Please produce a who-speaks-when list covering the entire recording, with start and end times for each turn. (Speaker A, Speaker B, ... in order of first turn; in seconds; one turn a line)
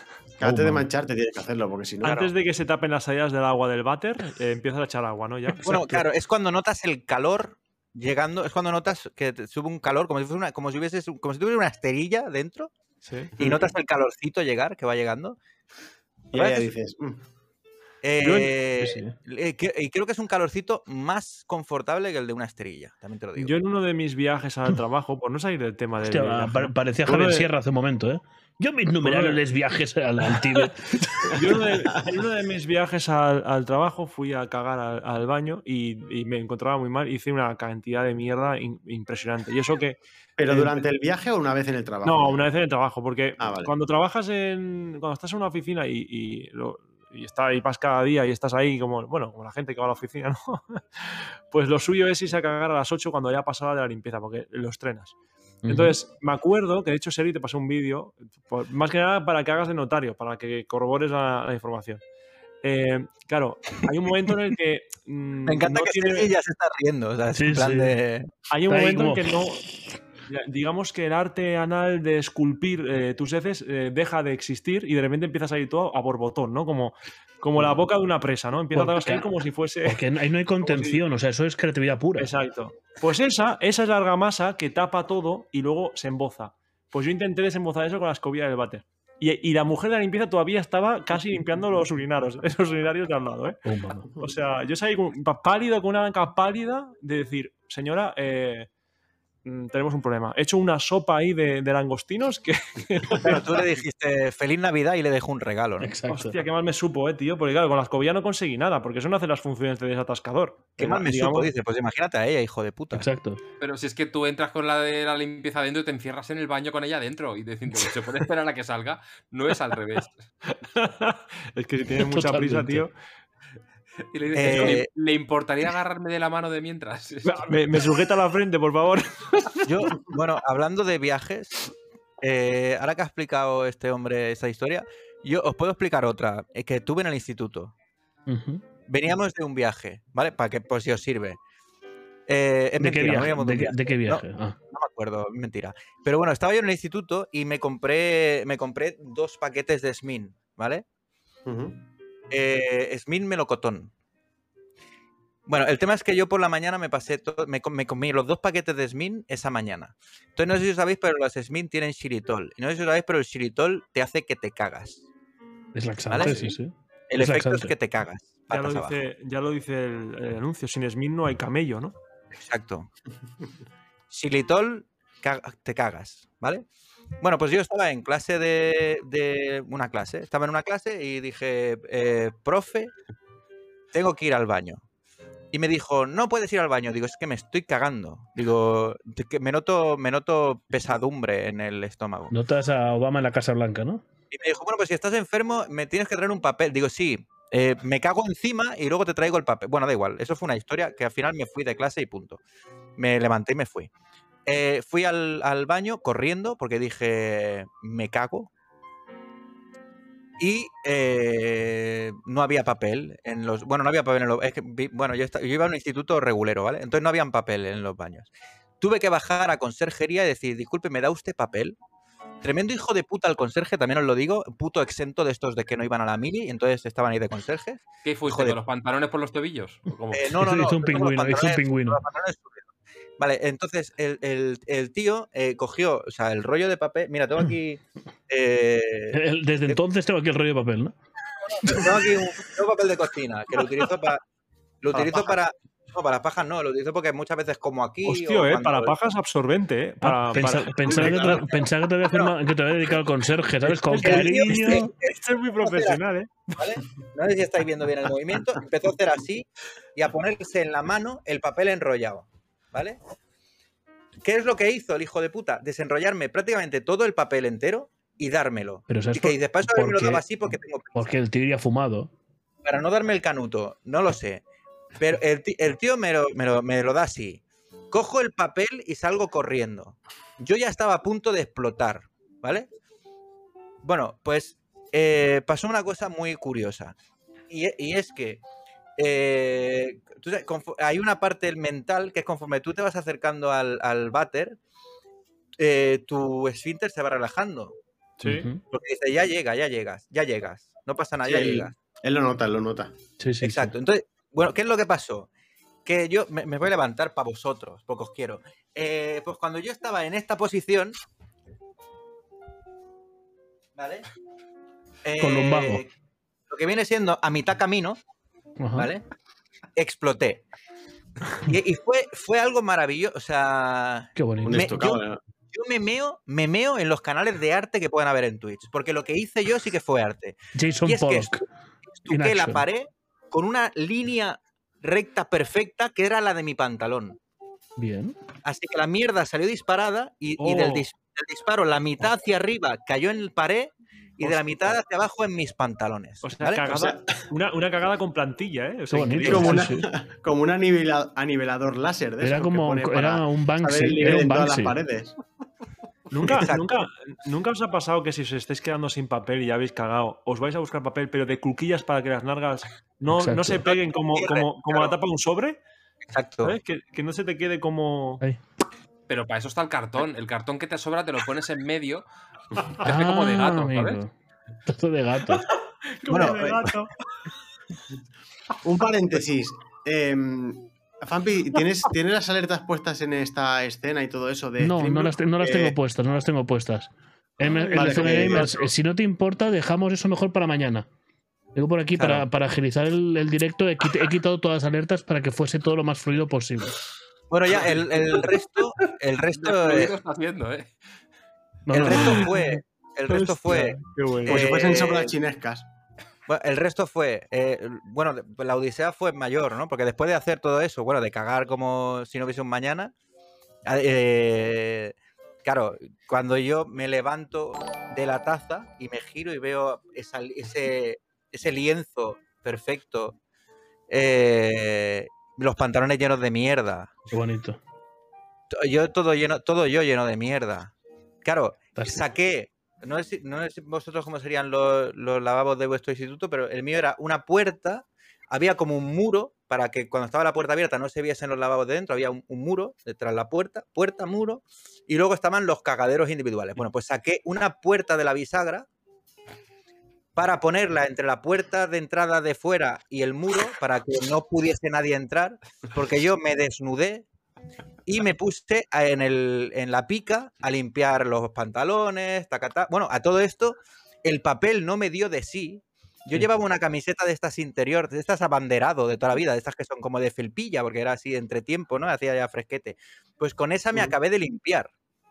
Speaker A: 0.4-2.3
Speaker B: 0.4-0.9
Speaker C: 2.0-5.7
Speaker D: 5.6-12.7
Speaker B: 5.6-6.0
Speaker C: 13.0-13.3
Speaker D: 13.4-15.4
Speaker A: 16.3-17.2
Speaker D: 16.3-16.7
Speaker D: 18.0-23.5
Speaker C: 18.2-18.5
Speaker B: 18.8-19.1
Speaker C: 23.4-27.5
Speaker B: 26.0-31.4
Speaker C: 29.0-29.4
Speaker C: 31.2-40.8
Speaker A: 40.4-42.4
Speaker C: 42.0-55.1
Speaker A: 43.4-43.7
Speaker B: 55.6-56.0
Speaker C: 55.7-62.0
Speaker C: 62.6-66.3
Speaker D: 65.5-68.3
Speaker B: 67.3-68.0
Speaker C: 68.5-69.7
Speaker B: 68.7-69.2
Speaker C: 70.2-80.0
Speaker B: 78.7-79.3
Speaker B: 79.8-82.3
Speaker C: 80.6-81.0
Speaker C: 82.2-93.6
Speaker B: 93.7-94.1
Speaker C: 94.2-98.7
Speaker C: 99.4-103.7
Speaker D: 103.2-105.9
Speaker B: 105.8-106.4
Speaker C: 106.1-111.5
Speaker D: 110.8-113.1
Speaker B: 112.9-113.4
Speaker E: 113.6-120.2
Speaker C: 120.5-122.9
Speaker B: 122.0-122.8
Speaker E: 124.1-127.4
Speaker D: 124.3-124.9
Speaker C: 124.5-124.8
Speaker C: 127.2-129.9
Speaker D: 129.7-131.7
Speaker D: 132.2-137.7
Speaker B: 138.3-138.6
Speaker D: 138.9-141.4
Speaker D: 142.3-150.8
Speaker B: 142.8-144.6
Speaker A: 151.4-151.8
Speaker D: 152.3-153.9
Speaker D: 155.5-165.0
Speaker B: 165.7-167.7
Speaker D: 166.1-166.6
Speaker D: 167.1-169.0
Speaker C: 168.5-171.9
Speaker D: 172.3-172.9
Speaker D: 174.1-176.6
Speaker D: 177.2-182.9
Speaker D: 183.9-184.8
Speaker D: 185.5-192.3
Speaker B: 192.3-194.0
Speaker D: 194.3-202.4
Speaker D: 203.0-203.9
Speaker D: 204.4-208.5
Speaker D: 210.4-221.8
Speaker D: 222.4-228.6
Speaker E: 228.0-230.4
Speaker D: 230.1-232.7
Speaker B: 230.3-232.0
Speaker D: 233.2-239.8
Speaker B: 239.1-240.9
Speaker D: 241.5-244.2
Speaker D: 244.8-248.9
Speaker C: 248.0-251.5
Speaker B: 250.0-254.9
Speaker D: 251.0-251.4
Speaker D: 252.0-252.3
Speaker C: 253.7-256.5
Speaker D: 254.0-256.0
Speaker D: 256.5-263.0
Speaker D: 264.2-271.1
Speaker B: 268.9-270.2
Speaker B: 270.9-272.1
Speaker D: 272.6-274.4
Speaker D: 275.0-282.7
Speaker D: 283.8-286.9
Speaker D: 287.5-288.4
Speaker D: 289.0-294.6
Speaker D: 295.6-297.7
Speaker C: 298.2-298.5
Speaker B: 298.2-298.6
Speaker D: 298.7-301.7
Speaker A: 301.2-302.9
Speaker B: 303.2-303.7
Speaker D: 303.4-305.3
Speaker D: 305.8-311.0
Speaker D: 313.7-314.1
Speaker D: 315.0-315.9
Speaker B: 315.2-315.8
Speaker D: 316.5-318.0
Speaker B: 318.6-318.9
Speaker D: 318.8-319.0
Speaker D: 319.8-320.4
Speaker D: 321.4-325.0
Speaker B: 324.1-324.8
Speaker A: 324.4-325.2
Speaker D: 325.5-331.4
Speaker B: 330.5-331.4
Speaker D: 332.0-337.2
Speaker B: 332.1-332.6
Speaker B: 337.8-338.1
Speaker D: 338.4-346.8
Speaker C: 340.4-340.9
Speaker C: 346.2-349.7
Speaker A: 346.7-347.1
Speaker B: 348.9-349.9
Speaker A: 349.2-355.2
Speaker B: 352.2-354.8
Speaker C: 356.1-365.6
Speaker D: 356.3-356.7
Speaker B: 363.1-363.6
Speaker D: 363.6-364.9
Speaker D: 366.1-366.6
Speaker C: 366.4-368.2
Speaker E: 369.1-372.0
Speaker E: 372.7-374.0
Speaker B: 372.8-374.1
Speaker B: 374.6-375.4
Speaker C: 375.9-376.9
Speaker D: 376.1-376.7
Speaker A: 378.6-385.8
Speaker B: 384.6-390.9
Speaker C: 387.5-388.5
Speaker A: 387.7-388.5
Speaker B: 391.5-396.8
Speaker D: 391.9-392.2
Speaker D: 397.3-399.9
Speaker E: 399.4-400.7
Speaker B: 401.6-402.4
Speaker D: 401.7-405.1
Speaker C: 401.9-402.4
Speaker C: 403.1-404.5
Speaker A: 404.2-405.6
Speaker D: 406.3-412.9
Speaker D: 413.6-423.1
Speaker D: 423.9-426.9
Speaker B: 427.1-427.6
Speaker D: 428.5-430.7
Speaker D: 431.2-448.7
Speaker B: 431.8-432.0
Speaker D: 450.1-457.1
Speaker D: 457.9-474.7